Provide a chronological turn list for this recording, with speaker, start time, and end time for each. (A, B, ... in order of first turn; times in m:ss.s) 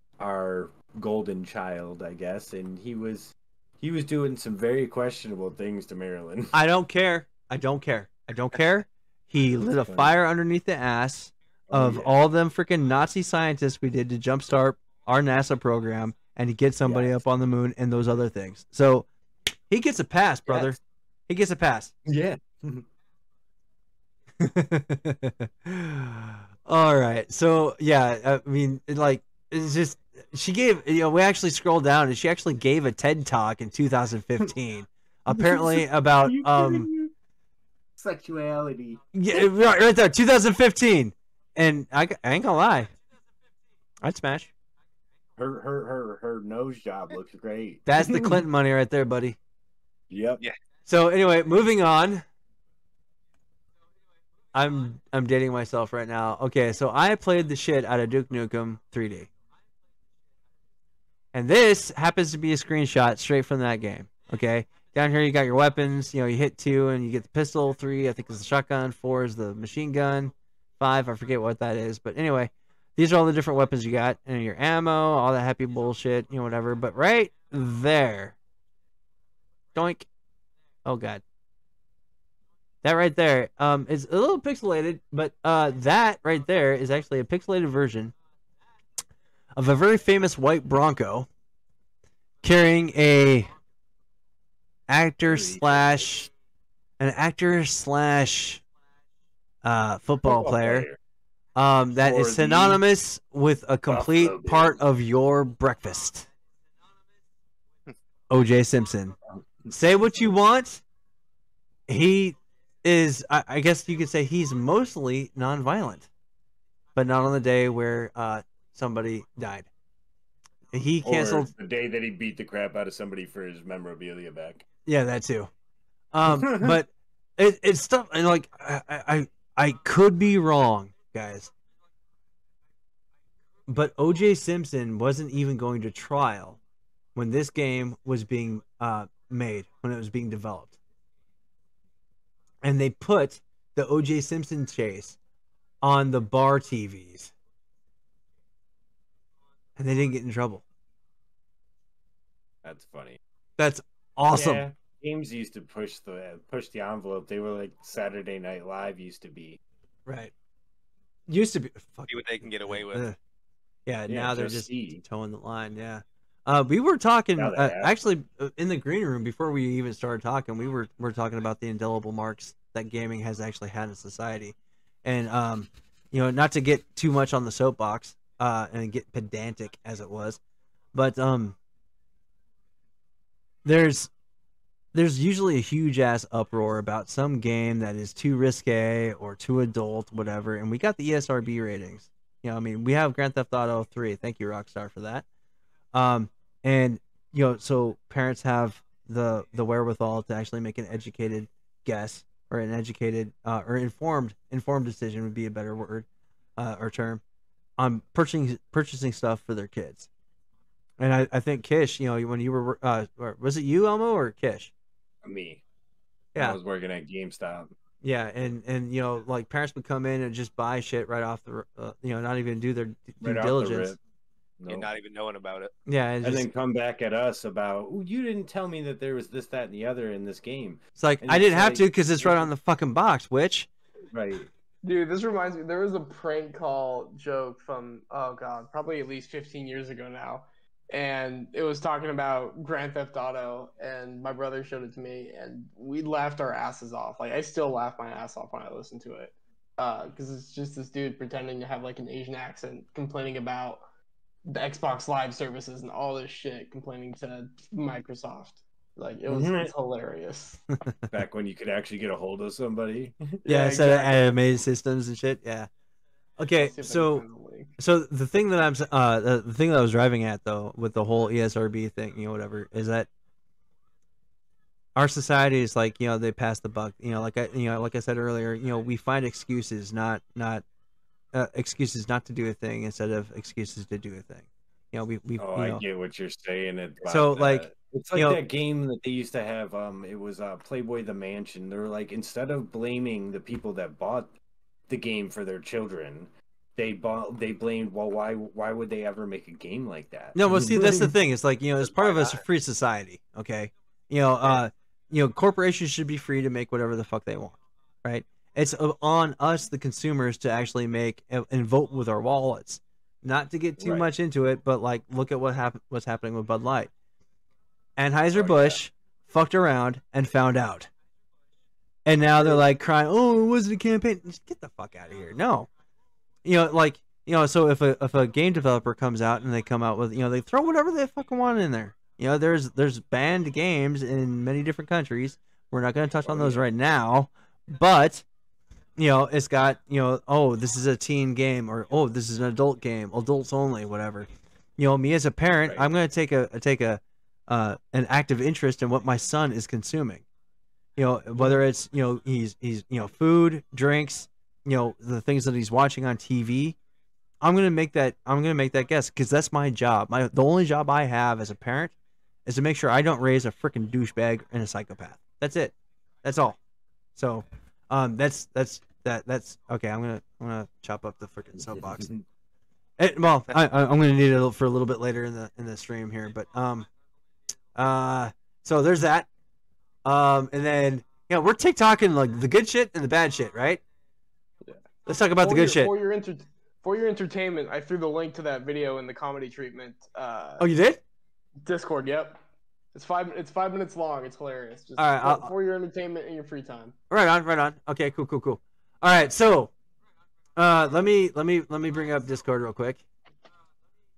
0:00.2-0:06.5 A
0:06.5-0:19.1 B
0:09.8-0:10.1 A
0:11.7-0:12.1 A
0:16.8-0:17.2 A
0:19.7-0:20.8 B
0:20.5-0:20.7 A
0:21.3-0:21.9 B
0:22.0-0:22.8 A
0:24.4-0:36.9 B
0:35.3-0:37.1 A
0:38.0-0:39.5 A
0:39.1-0:42.9 B
0:44.0-0:44.5 B
0:45.4-0:48.4 A
0:47.8-0:49.4 B
0:50.1-0:50.4 A
0:50.8-0:52.2 B
0:54.5-0:59.3 B
1:01.3-1:18.4 B
1:19.7-1:20.1 B
1:20.8-1:21.2 B
1:22.8-1:28.1 B
1:29.6-1:31.3 B
1:32.4-1:33.5 B
1:34.9-1:36.3 B
1:35.2-1:36.0 A
1:37.0-1:38.6 B
1:39.6-1:40.9 B
1:40.2-1:41.0 A
1:41.6-1:46.3 B
1:42.0-1:42.8 A
1:43.9-1:44.8 A
1:48.3-1:49.2 B
1:49.7-1:50.8 B
1:51.9-1:56.1 B
1:57.0-1:59.7 B
2:00.7-2:01.5 B
2:01.0-2:04.6 A
2:04.8-2:05.5 B
2:06.1-2:11.5 B
2:06.2-2:06.8 A
2:13.7-2:16.6 B
2:17.1-2:20.8 B
2:22.6-2:25.2 B
2:25.8-2:27.3 B
2:29.8-2:30.6 B
2:32.6-2:33.2 A
2:33.6-2:34.6 B
2:34.3-2:39.6 A
2:40.0-2:40.3 B
2:41.3-2:43.2 B
2:42.1-2:43.0 C
2:43.9-3:00.4 B
2:44.1-2:45.0 A
2:47.4-2:47.9 A
3:00.9-3:01.6 B
3:03.6-3:04.1 B
3:04.9-3:15.2 B
3:15.9-3:26.0 B
3:26.6-3:27.2 B
3:27.8-3:30.1 B
3:31.0-3:34.7 B
3:35.2-3:35.6 A
3:36.3-3:37.7 A
3:38.0-3:43.9 B
3:43.2-3:44.0 A
3:44.6-3:44.9 A
3:44.7-3:45.7 C
3:45.8-3:46.4 B
3:46.2-3:52.5 A
3:51.0-3:53.7 B
3:54.1-3:54.5 A
3:54.8-4:13.8 D
4:14.5-4:20.6 D
4:19.3-4:19.7 A
4:21.1-4:23.4 A
4:23.4-4:24.4 D
4:23.4-4:25.7 B
4:26.4-4:27.2 B
4:26.6-4:27.7 D
4:27.8-4:33.1 B
4:35.0-4:40.6 B
4:41.3-4:45.8 B
4:45.4-4:54.3 A
4:47.0-4:48.4 B
4:54.9-5:01.1 A
5:00.3-5:16.9 B
5:01.8-5:02.4 A
5:13.8-5:14.1 A
5:18.0-5:20.9 B
5:18.3-5:18.8 A
5:22.0-5:25.7 B
5:26.4-5:38.2 B
5:36.2-5:36.6 A
5:39.0-5:50.2 B
5:51.0-5:56.8 B
5:57.4-6:01.9 B
6:02.4-6:06.6 B
6:07.2-6:12.1 B
6:11.6-6:12.2 A
6:13.0-6:16.9 B
6:17.7-6:19.3 B
6:20.0-6:23.8 B
6:25.1-6:25.9 B
6:25.4-6:30.6 D
6:30.6-6:31.0 B
6:31.6-6:32.4 D
6:32.9-6:36.9 D
6:35.0-6:35.5 B
6:37.1-6:39.7 B
6:40.6-6:43.0 B